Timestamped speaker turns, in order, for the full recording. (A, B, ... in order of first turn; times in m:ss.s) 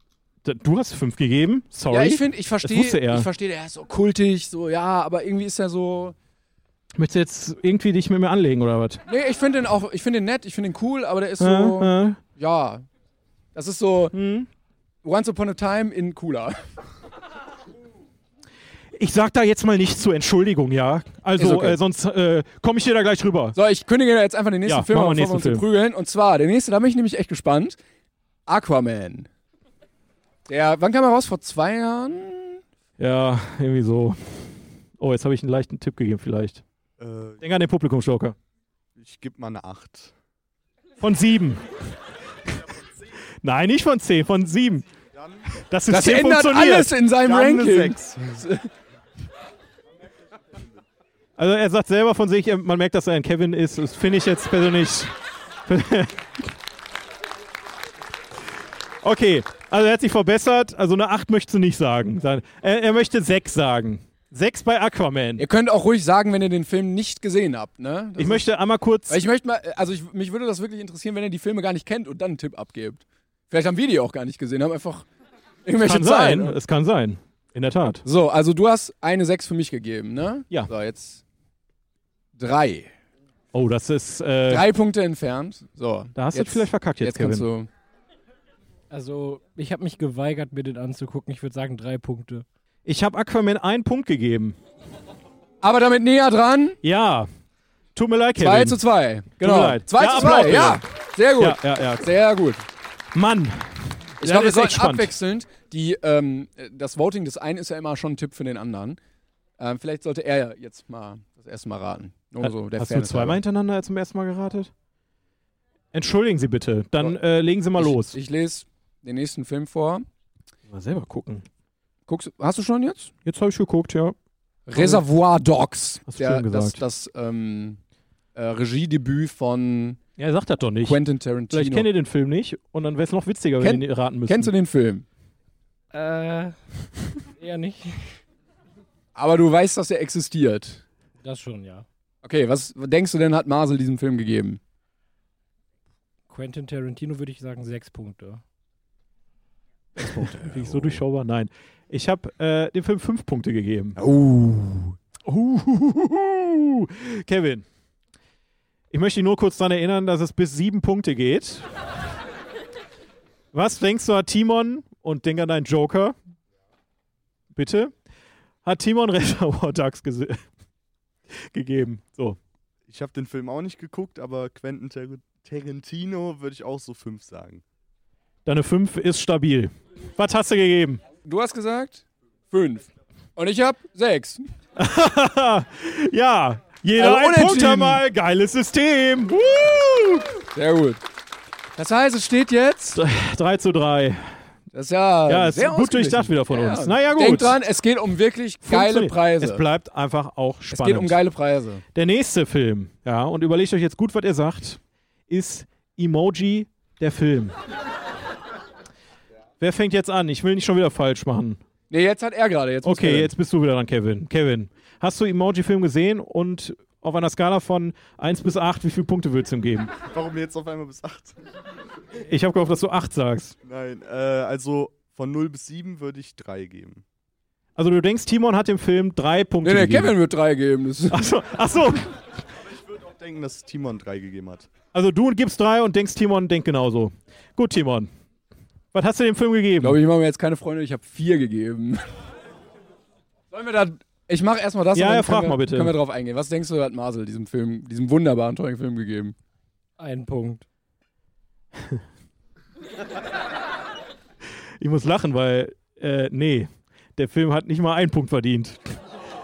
0:00.4-0:03.3 A
0:01.9-0:06.1 B
0:07.0-0:09.0 A
0:09.1-0:12.8 B
0:11.4-0:12.2 A
0:13.5-0:14.1 B
0:14.1-0:14.5 A
0:15.0-0:16.6 B
0:18.9-0:23.6 A
0:21.4-0:21.8 B
0:23.6-0:27.8 B
0:24.7-0:25.6 A
0:28.5-0:29.3 B
0:30.5-0:32.6 B
0:33.0-0:36.6 A
0:37.0-0:37.4 C
0:37.4-0:38.3 A
0:39.0-0:40.1 C
0:41.0-0:41.7 A
0:43.4-0:44.8 A
0:45.6-0:46.9 A
0:45.9-0:48.7 B
0:47.2-0:48.4 C
0:51.4-0:55.1 A
0:55.7-0:56.2 A
0:59.0-1:05.4 A
1:05.4-1:08.4 B
1:08.2-1:09.2 A
1:09.1-1:15.0 B
1:15.6-1:16.6 B
1:15.8-1:18.0 A
1:18.0-1:21.2 B
1:22.4-1:22.9 B
1:23.5-1:24.7 A
1:24.5-1:27.7 B
1:26.2-1:27.4 A
1:28.9-1:32.4 D
1:32.8-1:34.6 A
1:35.6-1:36.8 B
1:36.8-1:37.3 A
1:37.9-1:38.8 A
1:38.4-1:42.6 B
1:39.4-1:40.8 A
1:41.4-1:42.1 A
1:43.1-1:45.1 A
1:44.2-1:49.0 B
1:49.6-1:53.4 B
1:52.4-1:54.7 A
1:55.9-1:58.2 A
1:57.8-2:00.0 B
2:00.7-2:01.4 A
2:02.1-2:03.1 B
2:03.2-2:04.2 A
2:04.7-2:07.8 B
2:04.8-2:05.0 A
2:06.1-2:06.8 A
2:08.3-2:10.0 B
2:10.2-2:11.0 A
2:10.8-2:11.9 B
2:11.5-2:14.5 A
2:13.6-2:15.0 B
2:15.9-2:16.6 D
2:17.4-2:18.2 D
2:19.1-2:20.8 B
2:21.2-2:21.8 D
2:22.2-2:24.6 B
2:26.3-2:28.4 D
2:30.0-2:31.0 B
2:30.0-2:34.0 A
2:34.0-2:35.0 B
2:35.3-2:37.6 A
2:38.9-2:41.7 A
2:43.5-2:46.1 A
2:47.5-2:47.9 A
2:48.6-2:50.4 A
2:51.5-2:52.4 A
2:52.9-2:57.6 C
2:58.4-3:01.0 A
3:01.2-3:04.4 B
3:04.8-3:10.4 A
3:07.0-3:08.0 B
3:10.5-3:11.0 B
3:11.8-3:13.0 B
3:13.0-3:14.2 A
3:14.7-3:19.6 B
3:15.3-3:17.6 A
3:18.6-3:21.2 A
3:20.7-3:21.8 B
3:21.9-3:27.5 A
3:29.6-3:31.6 A
3:31.9-3:33.3 B
3:32.8-3:39.9 A
3:40.1-3:41.3 C
3:42.3-3:43.6 A
3:43.6-3:47.0 C
3:47.8-3:50.1 A
3:49.6-3:51.2 B
3:51.1-3:52.1 A
3:52.9-3:54.7 C
3:54.9-3:58.1 A
3:58.9-4:00.0 A
3:59.8-4:02.0 B
4:03.5-4:09.3 B
4:04.9-4:05.9 A
4:10.0-4:10.6 D
4:14.8-4:19.0 A